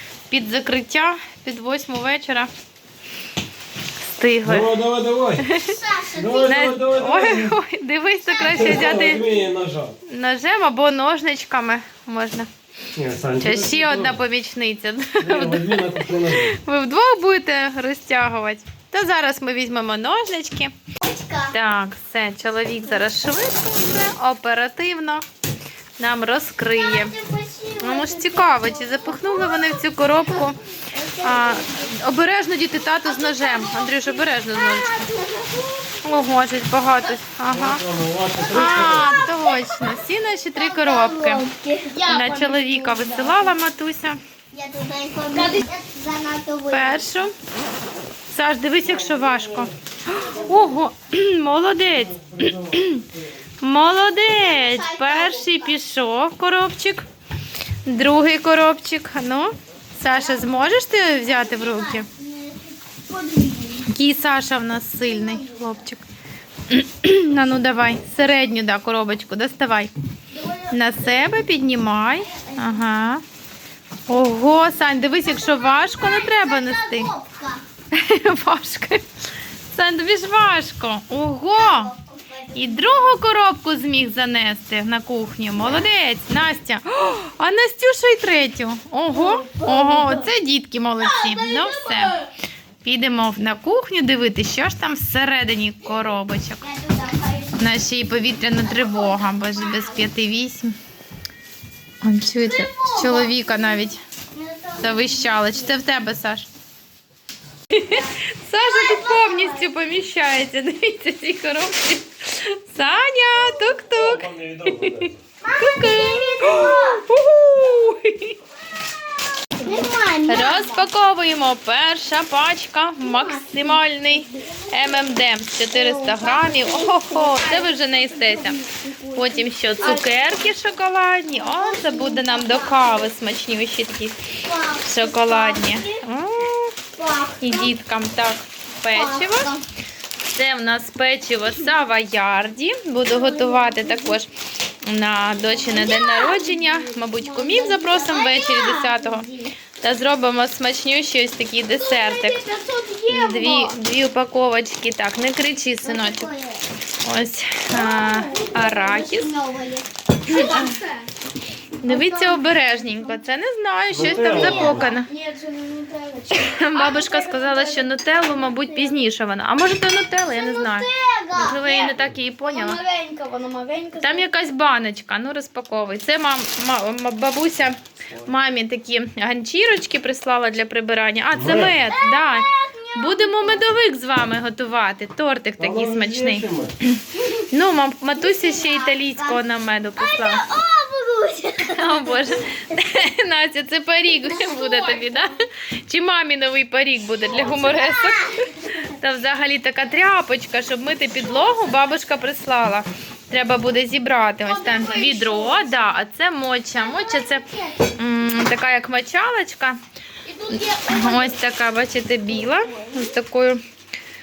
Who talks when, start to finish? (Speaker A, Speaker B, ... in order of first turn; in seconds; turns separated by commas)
Speaker A: 0.3-2.5, Speaker A: 4.0-4.7, Speaker B: 4.5-5.5, Speaker A: 5.4-5.8, Speaker C: 5.5-6.7, Speaker B: 6.2-7.5, Speaker A: 6.5-9.3, Speaker C: 8.3-9.1, Speaker B: 8.4-10.0, Speaker A: 10.0-12.5, Speaker B: 13.0-14.2, Speaker A: 13.4-20.7, Speaker B: 15.2-16.6, Speaker C: 21.0-21.6, Speaker A: 21.5-25.2, Speaker A: 26.0-27.2, Speaker C: 26.7-31.9, Speaker A: 27.8-30.6, Speaker A: 31.2-35.0, Speaker C: 33.0-36.3, Speaker A: 36.0-37.8, Speaker B: 37.5-39.3, Speaker C: 38.5-43.6, Speaker A: 38.5-41.5, Speaker A: 42.0-44.2, Speaker C: 44.5-47.2, Speaker A: 46.7-47.3, Speaker A: 48.3-53.0, Speaker C: 50.1-50.5, Speaker B: 52.2-52.9, Speaker A: 53.6-57.1, Speaker C: 54.3-55.8, Speaker A: 57.9-62.1, Speaker C: 60.1-63.9, Speaker A: 63.9-66.0, Speaker C: 65.0-65.8, Speaker A: 66.7-69.9, Speaker C: 70.3-71.5, Speaker A: 70.7-73.2, Speaker C: 72.2-72.8, Speaker A: 74.1-77.1, Speaker C: 75.2-77.6, Speaker A: 77.9-79.0, Speaker A: 79.7-81.9, Speaker C: 81.5-83.2, Speaker A: 82.5-92.2, Speaker C: 85.6-85.9, Speaker C: 89.1-90.3, Speaker C: 91.0-92.2, Speaker A: 92.8-96.7, Speaker C: 96.6-97.7, Speaker A: 97.6-100.7, Speaker C: 98.5-100.1, Speaker A: 102.0-104.0, Speaker C: 102.5-105.8, Speaker A: 104.8-106.5, Speaker A: 107.7-115.1, Speaker C: 107.9-109.9, Speaker B: 113.9-115.1, Speaker C: 115.4-117.1, Speaker A: 115.6-118.4, Speaker C: 119.6-120.9, Speaker A: 120.3-128.6, Speaker C: 123.0-125.1, Speaker C: 125.7-130.7, Speaker A: 129.1-136.8, Speaker C: 131.3-133.1, Speaker C: 134.4-136.0, Speaker C: 137.0-137.7, Speaker A: 137.4-139.5, Speaker C: 138.8-139.6, Speaker A: 140.3-144.3, Speaker C: 143.1-144.2, Speaker A: 144.8-152.5, Speaker C: 145.4-149.5, Speaker C: 151.8-153.8, Speaker A: 153.1-156.3, Speaker C: 155.8-156.6, Speaker A: 157.0-159.3, Speaker C: 157.7-161.0, Speaker A: 160.2-160.8, Speaker C: 161.8-163.2, Speaker A: 161.8-165.1, Speaker B: 163.9-164.9, Speaker C: 164.0-167.9, Speaker A: 166.3-172.8, Speaker C: 168.5-169.0, Speaker C: 170.3-174.3, Speaker A: 174.0-190.5, Speaker B: 181.3-181.8, Speaker C: 181.8-183.7, Speaker B: 185.6-186.7, Speaker C: 188.2-189.4, Speaker C: 190.0-192.8, Speaker A: 191.6-207.4, Speaker C: 194.2-195.3, Speaker C: 197.2-198.9, Speaker C: 201.3-201.8, Speaker C: 204.4-205.9, Speaker C: 206.8-207.9, Speaker A: 208.0-209.8, Speaker C: 210.3-211.4, Speaker A: 210.5-213.6, Speaker C: 212.5-213.1